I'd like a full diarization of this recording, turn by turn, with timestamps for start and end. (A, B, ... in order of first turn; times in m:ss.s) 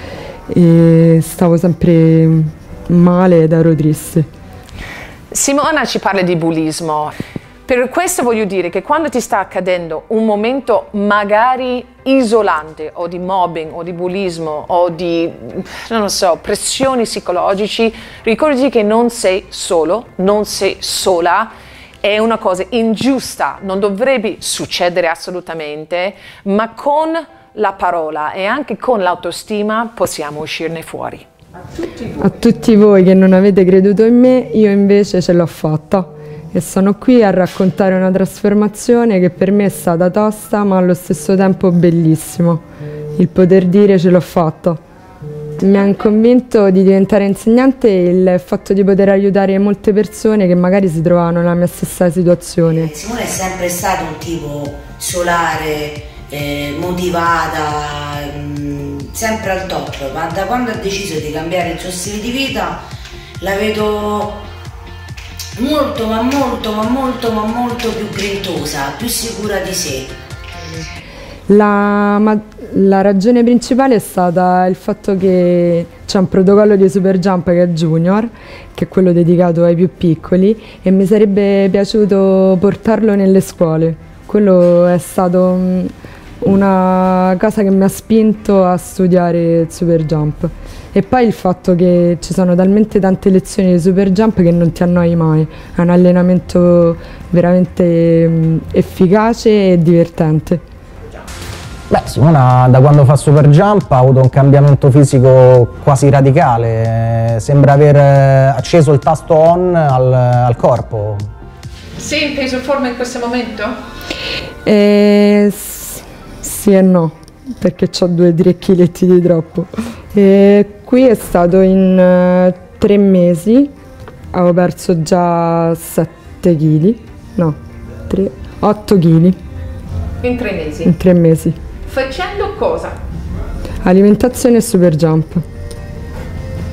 0:00.5-0:04.3 A
0:05.3-0:07.1 B
0:07.7-0:21.5 B
0:22.0-0:32.4 B
0:32.2-0:42.6 A
0:43.2-0:44.8 A
0:45.6-0:52.9 A
0:52.7-1:02.8 C
1:03.4-1:04.4 C
1:05.6-1:10.2 C
1:11.5-1:40.6 A
1:41.9-1:51.2 D
1:52.0-1:53.7 B
1:54.7-2:03.7 A
2:04.3-2:07.6 A
2:08.1-2:09.4 A
2:10.2-2:10.9 B
2:10.8-2:11.6 A
2:11.9-2:13.0 B
2:13.8-2:15.4 A